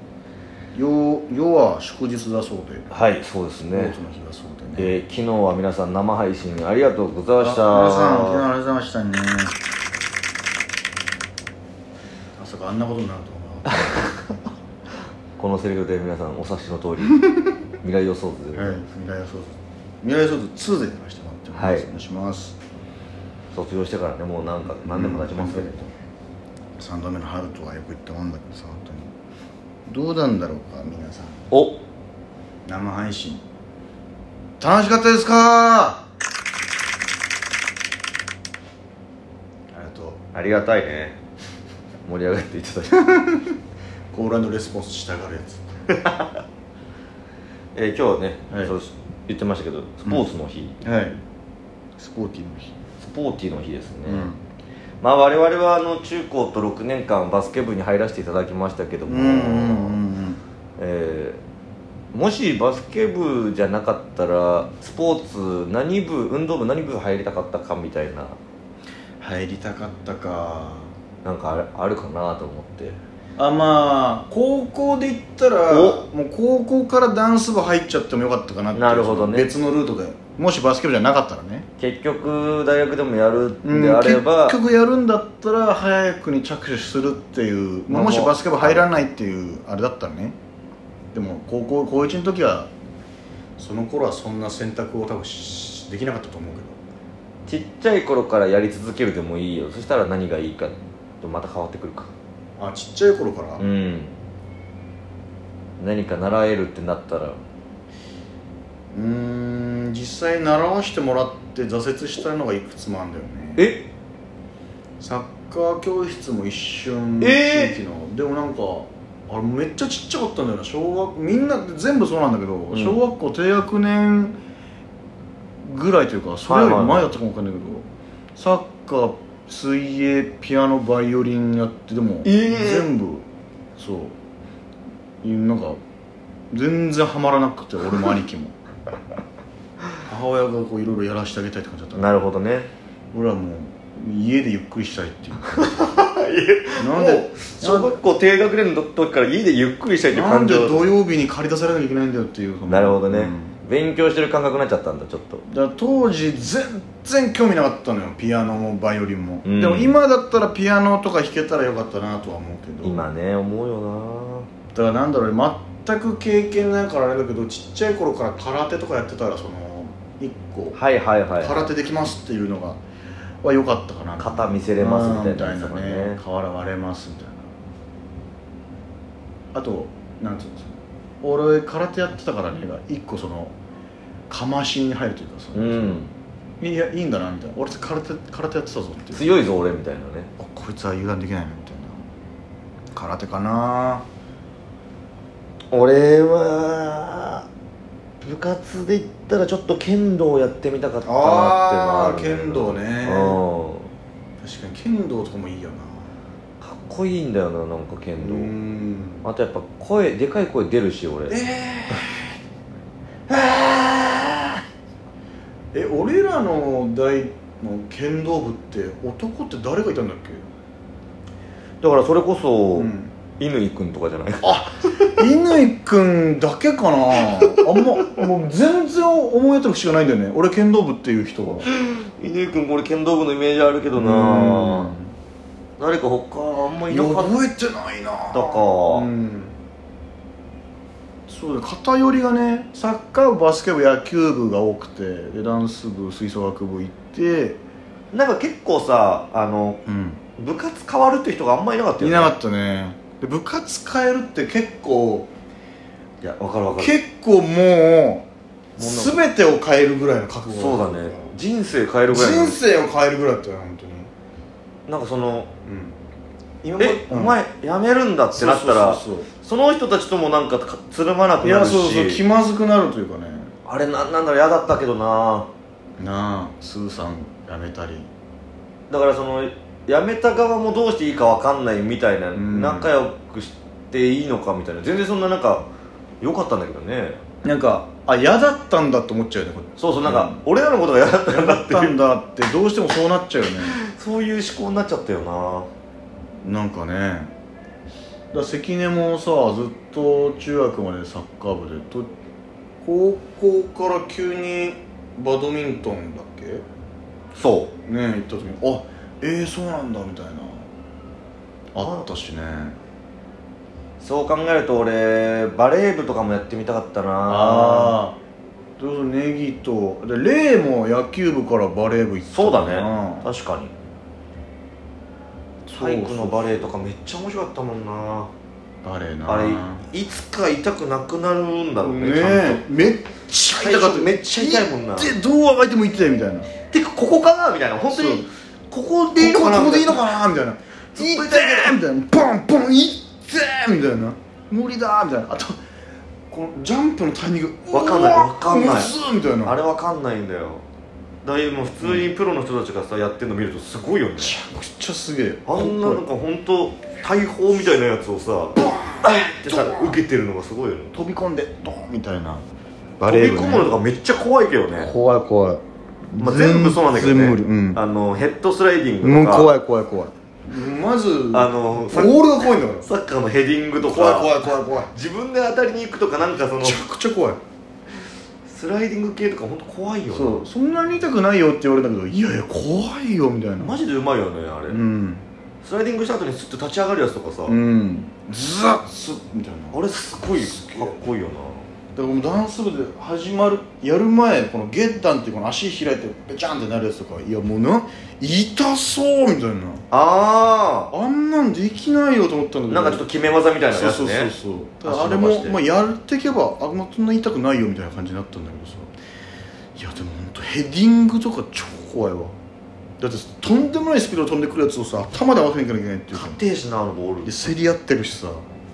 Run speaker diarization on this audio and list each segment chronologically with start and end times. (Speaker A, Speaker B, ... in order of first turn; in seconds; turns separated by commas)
Speaker A: 0.7-2.9, Speaker B: 2.9-4.0, Speaker A: 3.7-5.0, Speaker B: 4.8-8.5, Speaker A: 7.4-9.6, Speaker A: 12.4-14.1, Speaker B: 13.7-14.0, Speaker B: 15.4-17.2, Speaker B: 17.8-18.8, Speaker A: 18.5-22.6, Speaker B: 21.6-21.9, Speaker B: 23.5-25.9, Speaker A: 24.8-25.9, Speaker A: 26.8-29.1, Speaker A: 29.9-31.4, Speaker B: 31.5-31.8, Speaker A: 32.7-33.4, Speaker A: 34.6-36.0, Speaker A: 39.7-40.2, Speaker B: 40.3-41.2, Speaker B: 42.1-43.1, Speaker A: 43.1-43.5, Speaker A: 44.1-45.6, Speaker B: 46.0-46.3, Speaker B: 47.8-50.8, Speaker A: 48.5-48.8, Speaker A: 50.8-51.2, Speaker A: 52.0-52.8, Speaker B: 53.0-54.3, Speaker A: 54.0-54.4, Speaker B: 55.0-60.0, Speaker A: 59.1-60.4, Speaker B: 60.8-61.4, Speaker B: 62.1-68.4, Speaker A: 69.2-70.9, Speaker B: 71.2-73.0, Speaker A: 73.4-81.7, Speaker B: 75.7-76.1, Speaker B: 78.7-79.6, Speaker B: 81.8-84.6, Speaker A: 83.6-90.4, Speaker B: 87.9-88.9, Speaker A: 91.1-92.7, Speaker A: 93.6-96.8, Speaker B: 97.5-102.1, Speaker A: 102.6-103.6, Speaker B: 103.6-104.2, Speaker B: 105.8-107.4, Speaker A: 108.9-113.7, Speaker B: 113.6-113.9, Speaker A: 115.0-124.4, Speaker B: 117.2-117.8, Speaker B: 122.7-123.0, Speaker A: 125.6-133.2, Speaker B: 126.5-127.1, Speaker B: 132.2-132.9, Speaker A: 133.8-134.2, Speaker A: 135.2-135.8, Speaker A: 136.5-138.6, Speaker A: 140.1-142.1, Speaker B: 141.9-142.7, Speaker A: 143.1-145.9, Speaker B: 145.6-150.9, Speaker A: 146.8-148.0, Speaker A: 150.1-153.6, Speaker B: 152.7-155.4, Speaker A: 155.5-163.1, Speaker B: 159.4-159.9, Speaker B: 162.8-164.5, Speaker A: 164.7-170.8, Speaker B: 170.7-171.7, Speaker A: 171.4-172.8, Speaker A: 173.4-177.5, Speaker B: 174.2-176.2, Speaker A: 179.5-183.6, Speaker A: 184.3-186.0, Speaker B: 185.5-186.1, Speaker A: 186.6-189.4, Speaker B: 189.1-190.3, Speaker A: 190.4-192.1, Speaker A: 192.9-194.1, Speaker B: 195.7-197.5, Speaker B: 198.2-203.9, Speaker A: 201.0-203.4, Speaker A: 204.4-206.1, Speaker B: 206.6-208.5, Speaker A: 208.2-209.2, Speaker B: 209.2-211.4, Speaker A: 211.3-212.4, Speaker B: 213.3-214.5, Speaker A: 215.7-220.5, Speaker B: 221.8-225.1, Speaker A: 222.8-223.1, Speaker A: 224.4-231.7, Speaker B: 227.4-227.8, Speaker B: 231.7-234.9, Speaker A: 234.0-235.1, Speaker B: 235.8-237.4, Speaker A: 236.9-239.6, Speaker B: 238.3-239.1, Speaker A: 241.3-247.6, Speaker B: 248.1-249.8, Speaker A: 249.9-250.2, Speaker B: 250.4-252.3, Speaker A: 252.0-255.3, Speaker B: 256.2-256.9, Speaker A: 256.8-261.3, Speaker B: 258.8-259.2, Speaker B: 260.5-262.6, Speaker A: 262.1-264.1, Speaker B: 264.9-265.5, Speaker A: 265.6-266.0, Speaker A: 266.6-267.4, Speaker B: 266.8-272.2, Speaker A: 268.3-269.3, Speaker A: 271.4-273.5, Speaker B: 273.6-275.5, Speaker A: 276.0-278.1, Speaker B: 278.9-285.7, Speaker A: 282.3-282.9, Speaker B: 286.2-287.2, Speaker A: 287.4-290.4, Speaker B: 289.8-291.9, Speaker A: 291.3-293.8, Speaker B: 293.8-295.7, Speaker A: 296.4-297.3, Speaker A: 298.3-302.1, Speaker A: 302.8-306.6, Speaker B: 307.4-307.7, Speaker A: 307.9-310.7, Speaker A: 311.7-312.8, Speaker B: 311.8-312.1, Speaker B: 314.0-318.0, Speaker A: 317.3-318.2, Speaker A: 318.8-323.3, Speaker B: 322.3-323.7, Speaker A: 325.7-326.7, Speaker B: 325.7-328.3, Speaker A: 328.8-329.8, Speaker B: 329.3-332.7, Speaker A: 331.8-336.5, Speaker B: 333.5-335.1, Speaker B: 336.7-340.2, Speaker A: 337.9-338.2, Speaker A: 339.2-345.6, Speaker B: 340.9-341.8, Speaker A: 346.3-349.6, Speaker B: 347.7-350.6, Speaker B: 351.2-354.4, Speaker A: 351.8-352.1, Speaker A: 354.2-356.1, Speaker B: 355.5-361.0, Speaker A: 358.6-360.0, Speaker A: 360.9-362.5, Speaker A: 363.0-363.8, Speaker B: 363.0-364.9, Speaker A: 364.8-367.8, Speaker B: 366.2-369.5, Speaker A: 369.0-372.9, Speaker B: 371.3-376.8, Speaker A: 373.8-374.9, Speaker A: 376.6-377.4, Speaker B: 378.4-380.5, Speaker A: 380.1-383.8, Speaker B: 383.6-384.8, Speaker A: 384.7-385.2, Speaker B: 385.6-387.6, Speaker A: 387.5-389.8, Speaker B: 389.7-391.7, Speaker A: 390.3-391.0, Speaker A: 391.9-399.9, Speaker B: 399.9-400.9, Speaker A: 400.9-403.1, Speaker B: 402.7-405.6, Speaker A: 403.7-408.9, Speaker A: 409.8-412.4, Speaker A: 413.0-416.4, Speaker B: 416.1-417.4, Speaker A: 417.2-418.4